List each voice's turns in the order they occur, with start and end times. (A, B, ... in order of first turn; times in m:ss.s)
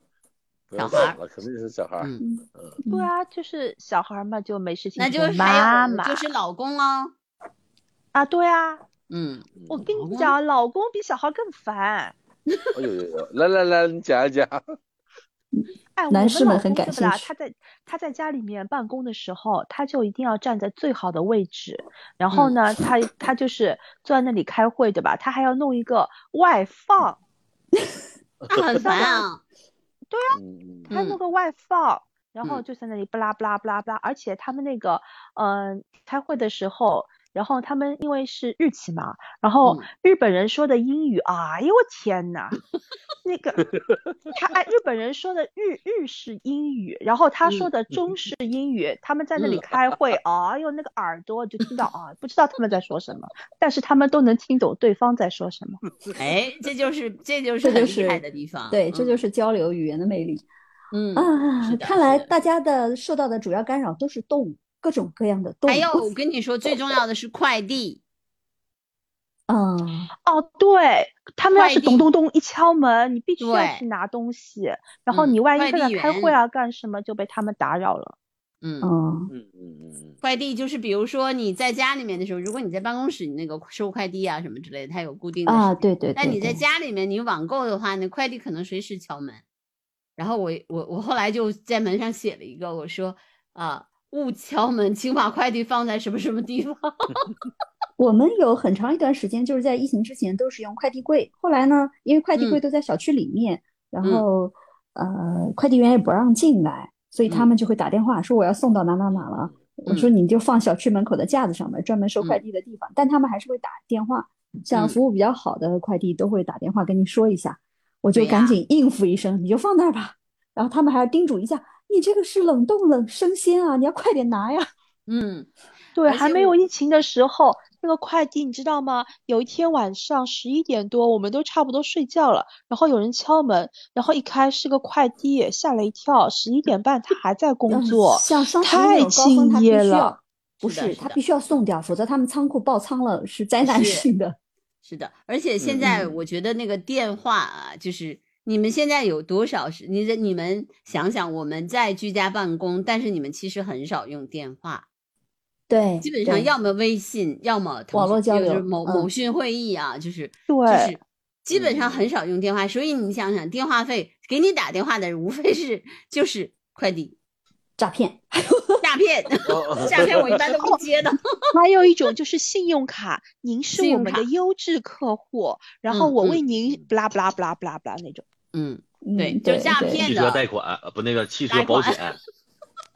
0:00.7-0:02.8 A
0:00.8-0:01.2 B
0:02.0-0:02.2 B
0:02.2-0:03.1 C
0:02.9-0:06.2 D
0:05.0-0:07.1 B
0:08.1-0:08.8 D
0:09.1-0:10.4 B
0:09.6-0:09.9 A
0:09.7-0:12.2 D
0:12.7-0:14.6 A
0:15.5-0:17.3 C
0:16.0-0:27.2 D
0:28.5-0:29.4 B
0:28.5-0:28.8 A
0:28.8-0:29.3 D
0:30.1-0:30.4 D
0:30.3-0:30.9 A
0:30.9-0:31.2 B
0:30.9-0:42.6 D
0:39.6-0:39.9 B
0:43.2-0:43.7 D
0:44.3-0:55.8 D
0:49.4-0:49.7 B
0:56.2-0:59.2 B
0:57.6-1:00.4 C
1:00.9-1:02.3 B
1:01.2-1:06.1 C
1:05.7-1:08.0 B
1:09.5-1:10.1 C
1:10.3-1:18.2 D
1:11.5-1:12.1 B
1:13.4-1:13.8 B
1:15.1-1:16.4 B
1:18.6-1:18.9 B
1:18.8-1:19.3 C
1:19.3-1:20.2 A
1:20.2-1:29.4 B
1:25.5-1:26.6 C
1:30.2-1:37.3 B
1:38.0-2:04.6 C
1:42.4-1:42.6 B
1:49.1-1:49.6 A
1:58.1-1:58.6 B
2:05.1-2:05.5 B
2:06.0-2:20.2 D
2:06.0-2:06.6 B
2:17.7-2:24.4 C
2:20.6-2:21.2 B
2:23.6-2:24.1 B
2:24.8-2:34.9 B
2:25.6-2:26.2 A
2:25.8-2:26.1 C
2:35.7-2:36.5 C
2:36.0-2:47.2 B
2:37.9-2:39.1 C
2:40.5-2:41.0 D
2:41.5-2:42.1 A
2:47.8-2:48.8 C
2:48.8-2:51.4 B
2:49.4-2:50.4 A
2:51.5-2:58.2 D
2:53.7-2:54.3 B
2:55.9-2:56.4 B
2:58.5-3:00.4 B
2:59.0-3:00.0 C
3:00.0-3:02.2 E
3:01.5-3:02.0 B